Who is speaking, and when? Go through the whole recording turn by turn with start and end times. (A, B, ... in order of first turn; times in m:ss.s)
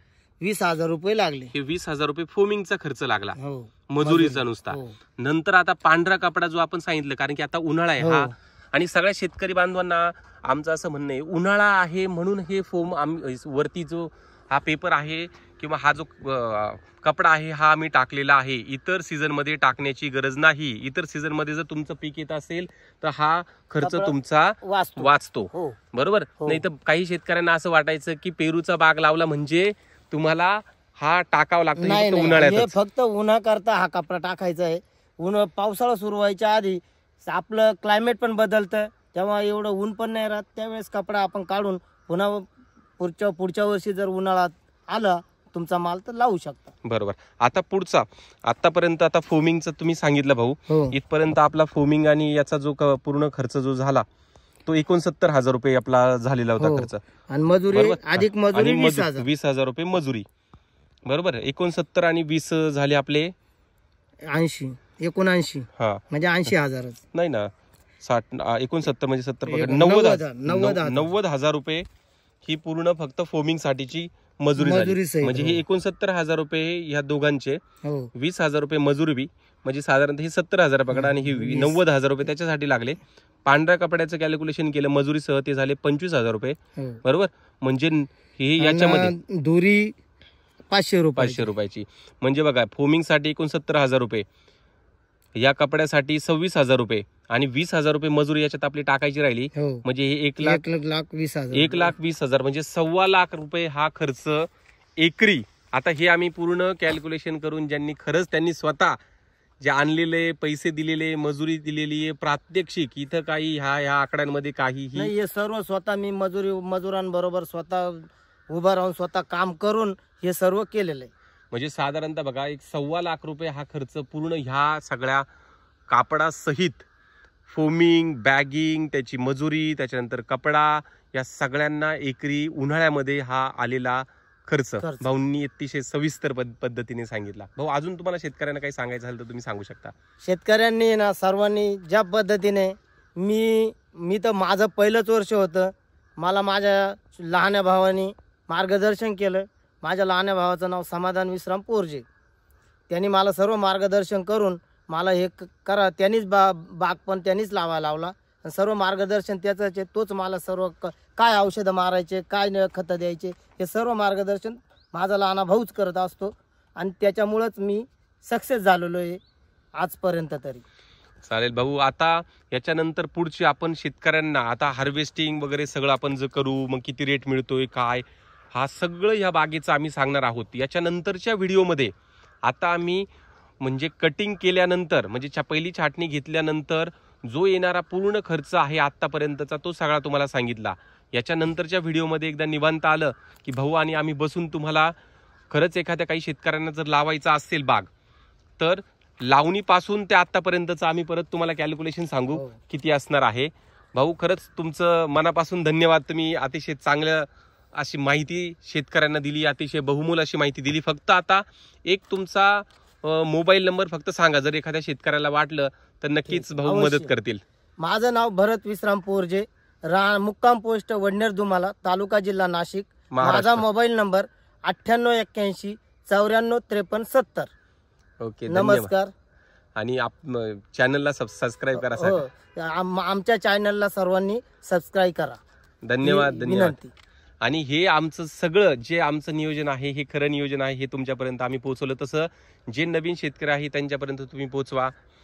0:00.4-0:01.5 A
0:01.5-0:03.4 B
0:03.4-0:05.0 A
0:03.9-0:32.7 B
0:08.0-0:08.3 A
0:23.8-0:25.8 A
0:31.8-0:42.5 A
0:43.0-0:46.7 A
0:46.8-0:54.0 B
0:50.7-0:51.0 A
0:54.6-0:57.0 B
0:56.6-0:59.3 A
0:57.7-1:00.2 B
1:01.0-1:03.3 B
1:04.3-1:07.0 A
1:05.8-1:06.0 B
1:07.1-1:07.5 B
1:08.0-1:11.8 B
1:09.5-1:11.1 A
1:12.4-1:17.6 B
1:14.6-1:15.6 A
1:17.8-1:18.1 A
1:18.1-1:29.1 B
1:20.9-1:21.8 A
1:28.6-1:30.0 A
1:30.7-1:31.4 A
1:31.2-1:34.2 B
1:35.4-1:40.6 B
1:39.5-1:39.8 A
1:40.4-1:41.9 A
1:41.5-1:49.0 B
1:49.6-1:55.1 B
1:54.9-2:01.1 A
2:01.5-2:05.2 B
2:05.9-2:06.8 B
2:07.5-2:19.9 B
2:14.8-2:15.1 A
2:20.2-2:32.0 A
2:32.9-2:49.2 A
2:49.7-2:50.6 A
2:51.2-3:01.9 B
3:02.4-3:03.1 B
3:03.6-3:14.9 B
3:15.5-3:17.9 B
3:18.6-3:37.4 B
3:36.3-3:37.1 A
3:37.8-3:47.5 A
3:43.1-3:43.6 B
3:48.2-3:48.9 B
3:48.5-3:49.1 A
3:49.8-3:52.2 B
3:51.7-3:55.4 A
3:55.8-3:56.8 B
3:56.0-3:56.9 A
3:57.4-4:04.9 B